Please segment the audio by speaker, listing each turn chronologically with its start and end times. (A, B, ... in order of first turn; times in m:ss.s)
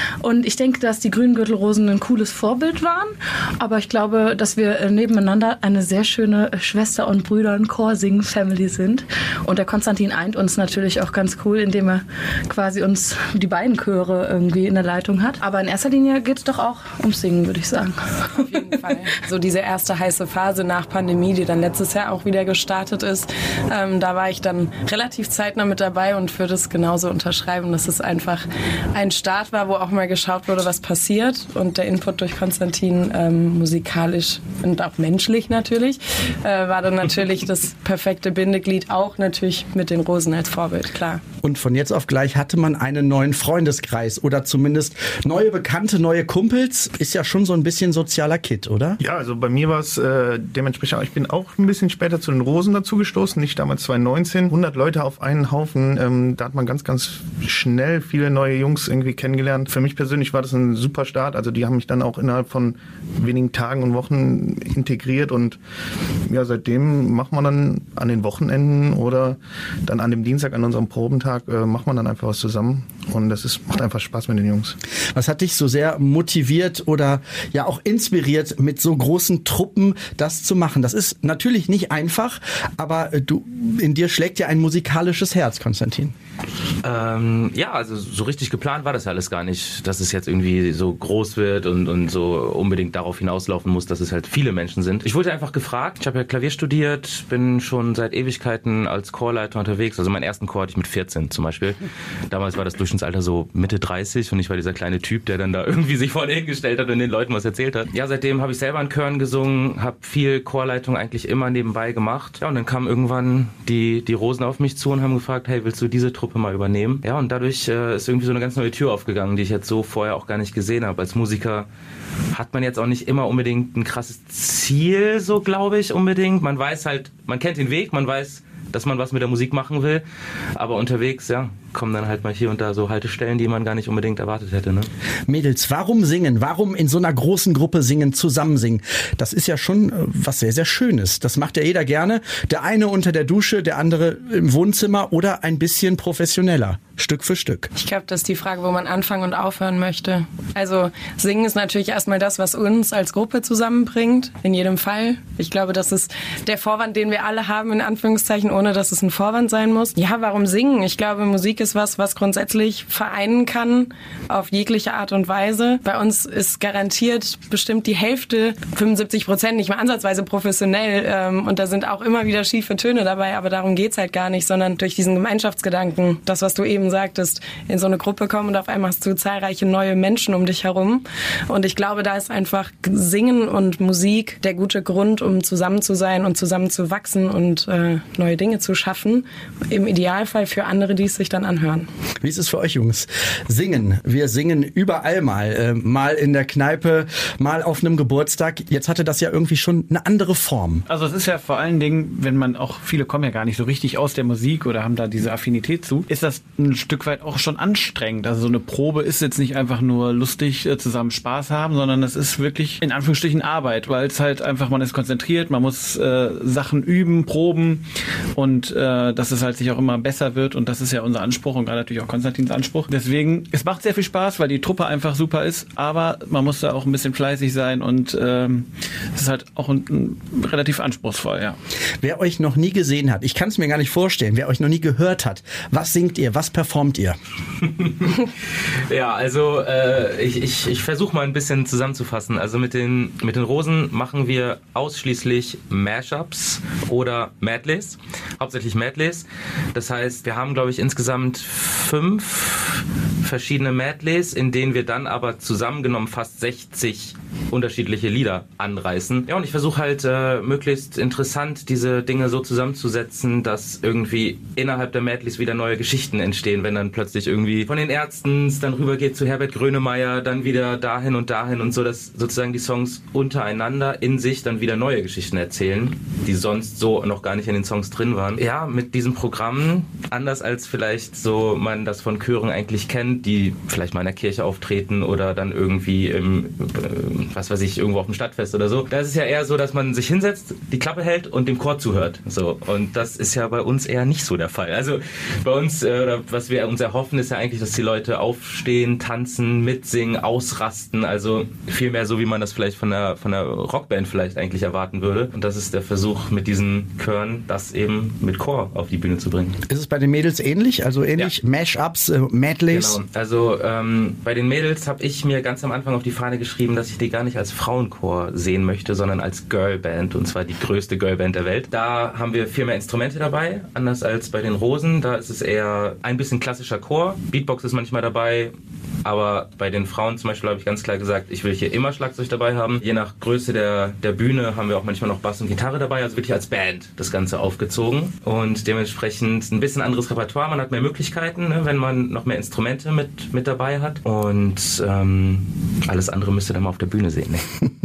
0:00.2-0:18.4 A
0:18.4-0:41.2 B
0:41.4-0:49.0 C
0:49.0-1:05.6 D
1:06.3-1:14.8 D
1:15.1-1:26.1 C
1:26.8-2:01.7 E
2:02.3-2:10.0 E
2:10.6-2:14.9 E
2:15.3-2:27.7 C
2:27.8-3:11.9 B
3:12.2-3:20.8 C
3:20.9-3:37.8 F
3:38.4-3:51.6 F
3:52.0-3:57.2 C
3:57.6-3:58.3 E
3:58.9-5:09.6 E
5:09.7-5:13.0 C
5:12.7-5:28.5 E
5:29.0-5:47.6 E